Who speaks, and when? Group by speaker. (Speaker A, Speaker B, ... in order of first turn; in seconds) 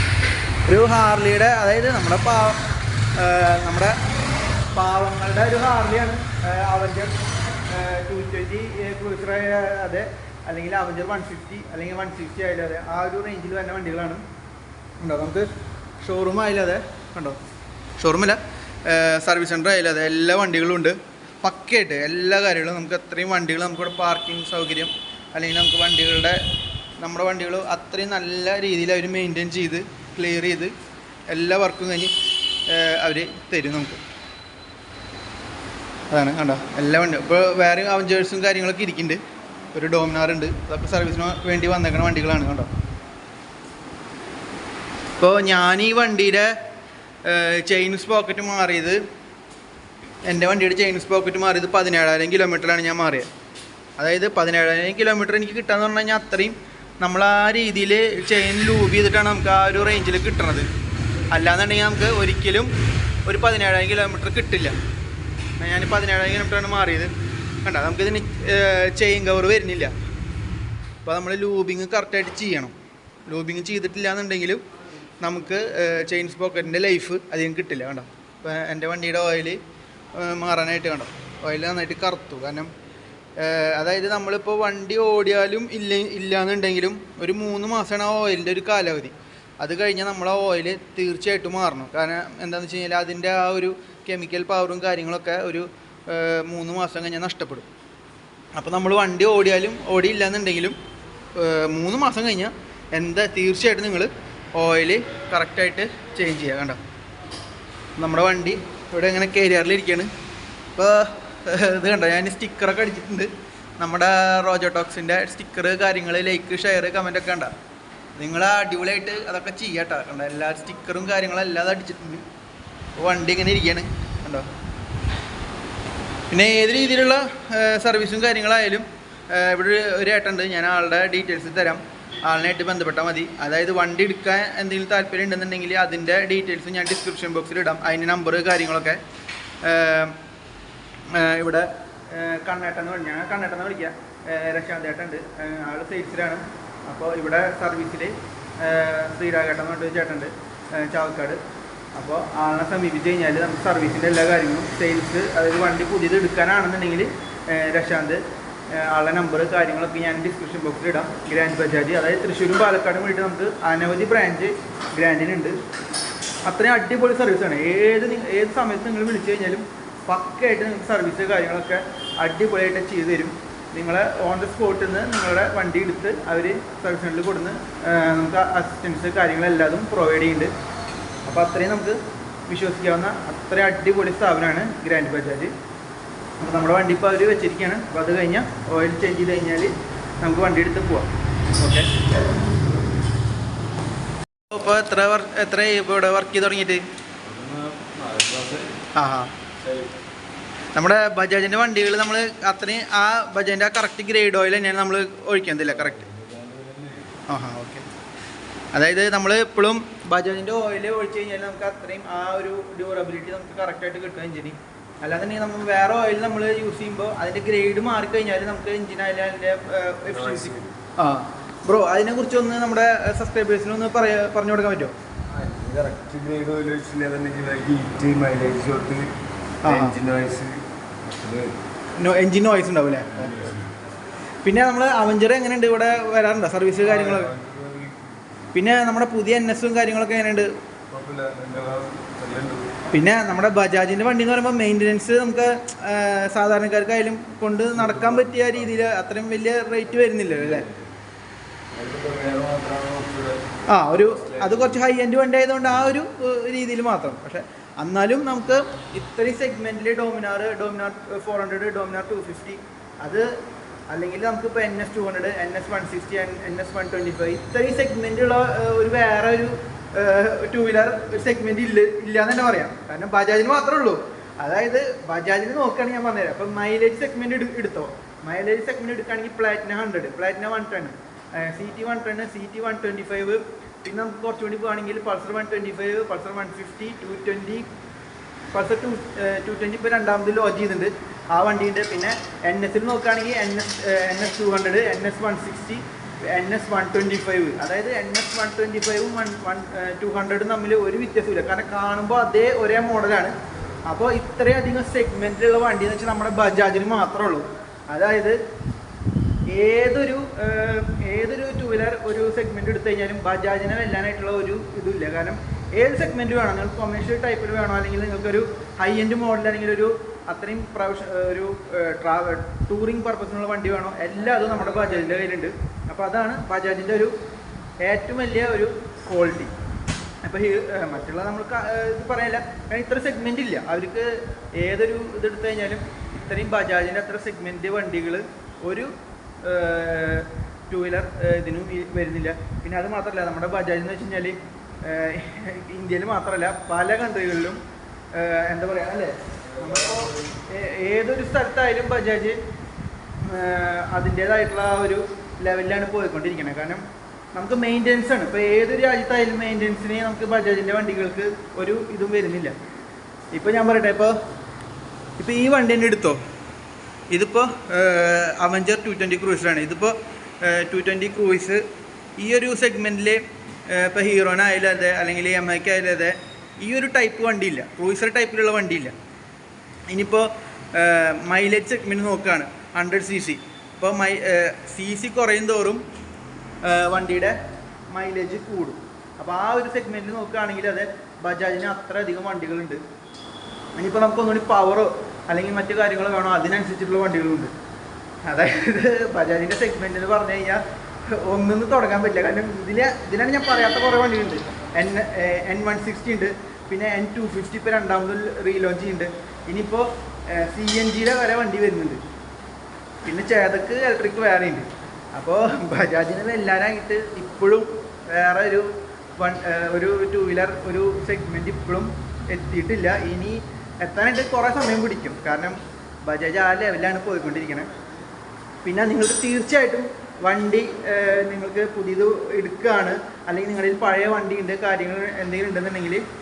Speaker A: 0.7-2.6, 3.1-3.9, 4.7-7.1, 7.7-14.2, 15.0-15.5, 16.0-17.4, 18.0-26.4, 27.0-30.7, 31.3-34.0, 36.1-39.2, 39.7-42.7, 45.2-46.5, 47.2-49.0, 50.2-53.3, 54.0-60.7, 61.3-62.7, 63.2-64.8, 65.6-67.1, 67.6-69.9, 71.0-72.7, 73.3-74.6, 75.2-79.6, 80.1-82.7, 83.4-97.7, 98.5-100.8, 101.3-106.8, 108.0-110.1, 110.7-117.5, 118.2-122.2, 123.0-124.5, 126.3-139.0, 139.6-140.2, 141.1-151.4, 151.9-165.6, 166.4-180.5, 181.2-182.0, 182.5-185.5, 186.4-191.9, 194.5-196.8, 198.9-199.3, 200.7-206.1, 207.3-207.8, 208.7-224.9, 229.6-230.0, 232.0-233.5, 234.4-237.3, 238.5-240.5, 242.9-250.7, 253.7-263.3, 263.9-287.7, 288.5-303.3, 303.9-308.4, 309.5-327.1, 327.8-329.5, 330.2-338.9, 339.4-347.6, 348.1-352.4, 353.2-356.8, 357.3-362.5, 363.3-364.1, 365.2-366.2, 367.1-371.6, 372.2-378.9, 379.9-385.8, 386.6-387.3, 387.9-392.8, 393.8-397.5, 398.2-412.0, 413.0-427.7, 428.6-436.0
Speaker B: 197.2-198.8, 199.6-199.9, 205.7-207.2, 220.1-220.8, 225.3-231.6, 233.3-233.6, 236.8-238.1, 240.9-242.8, 247.8-248.5, 250.3-250.9, 251.7-254.8, 349.5-350.4